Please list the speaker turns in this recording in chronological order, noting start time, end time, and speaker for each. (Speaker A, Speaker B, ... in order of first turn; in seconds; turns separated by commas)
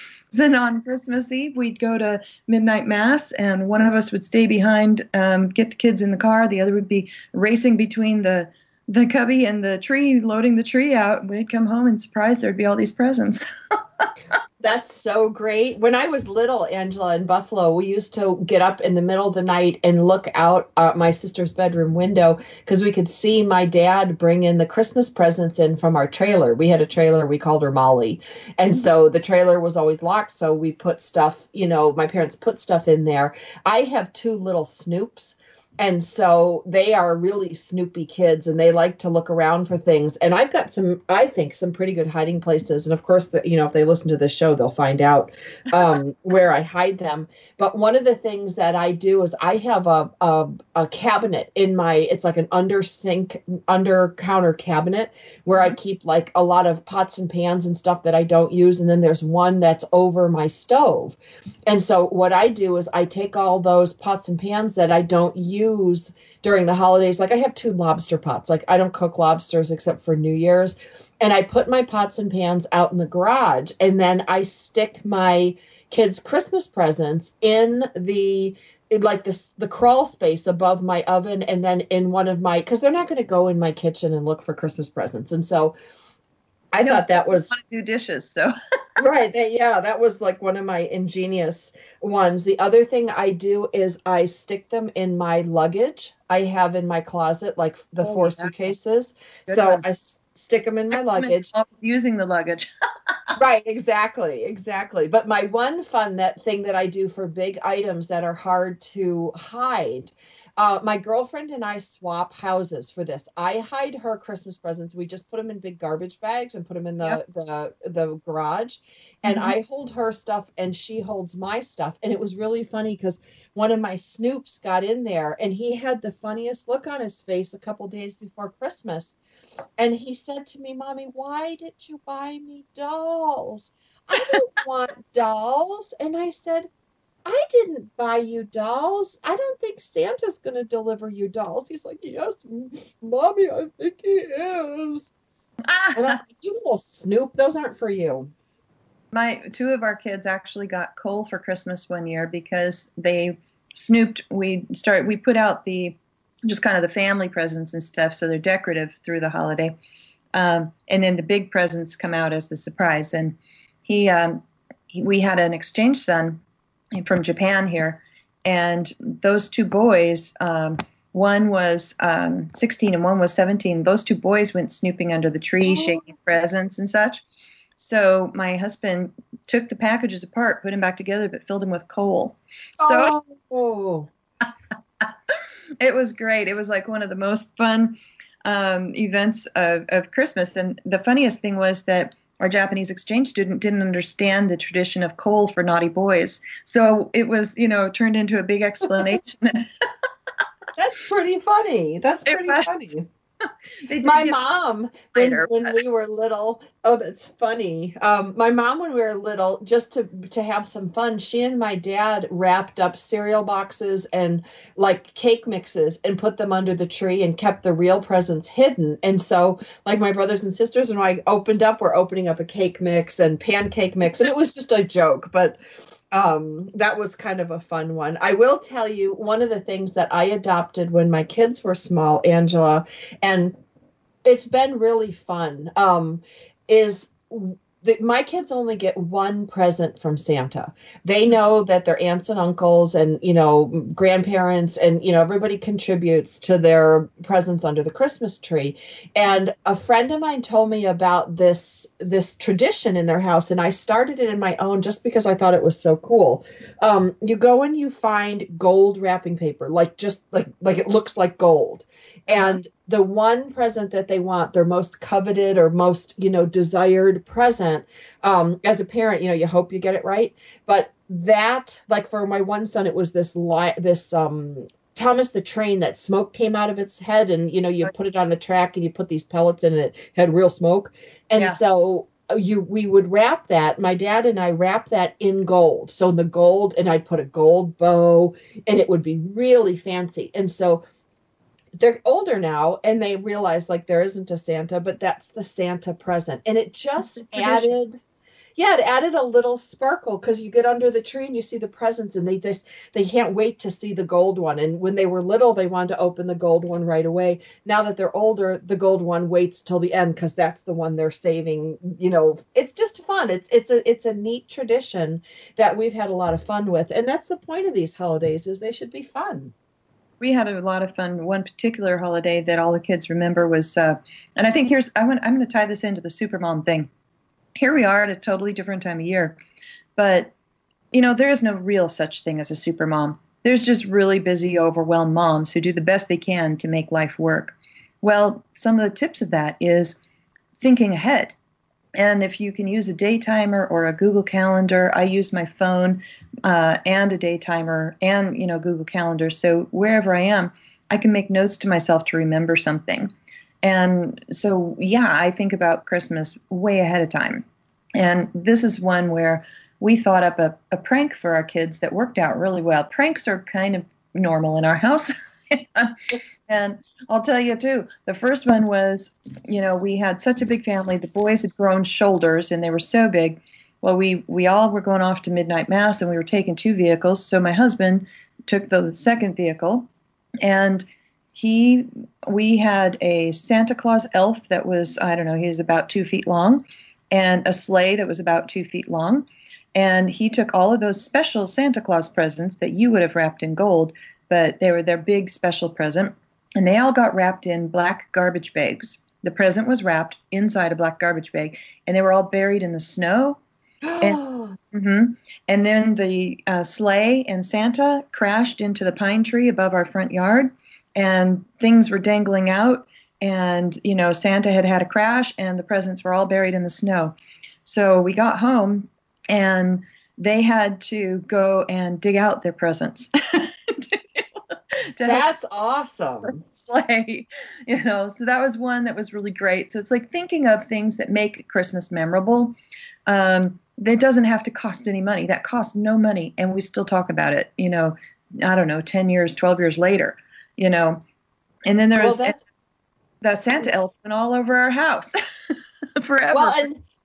Speaker A: 0.3-13.4, Speaker B: 14.6-85.8, Speaker B: 86.7-87.5, Speaker A: 86.8-88.5, Speaker B: 89.0-101.5, Speaker A: 98.0-98.7, Speaker A: 99.5-99.8, Speaker A: 100.9-103.4, Speaker B: 103.4-129.2, Speaker A: 119.2-119.5, Speaker B: 129.8-136.7, Speaker B: 137.2-145.1, Speaker A: 145.7-146.1, Speaker B: 145.9-148.3, Speaker A: 149.1-159.8, Speaker A: 160.3-166.4, Speaker A: 166.9-177.2, Speaker A: 177.8-183.2, Speaker B: 182.8-184.1, Speaker A: 185.0-199.7, Speaker B: 200.8-203.1, Speaker A: 202.3-202.7, Speaker A: 203.8-204.4, Speaker B: 204.0-225.6, Speaker A: 205.1-205.8, Speaker B: 226.1-233.6, Speaker B: 234.2-290.8, Speaker A: 262.3-262.6, Speaker A: 281.4-281.6, Speaker B: 291.8-298.0, Speaker A: 297.1-297.7, Speaker B: 298.6-319.5, Speaker A: 320.2-326.9, Speaker A: 327.6-329.4, Speaker A: 330.0-330.3, Speaker A: 330.9-340.0, Speaker A: 340.6-341.3, Speaker A: 341.9-353.1, Speaker A: 353.6-379.9, Speaker A: 380.4-403.4, Speaker B: 403.9-404.6, Speaker A: 404.0-425.4, Speaker B: 425.1-426.4, Speaker A: 426.2-432.6, Speaker A: 433.1-441.0, Speaker A: 441.7-442.4, Speaker B: 442.0-442.4, Speaker A: 443.2-445.1, Speaker A: 446.0-446.7, Speaker B: 446.3-446.8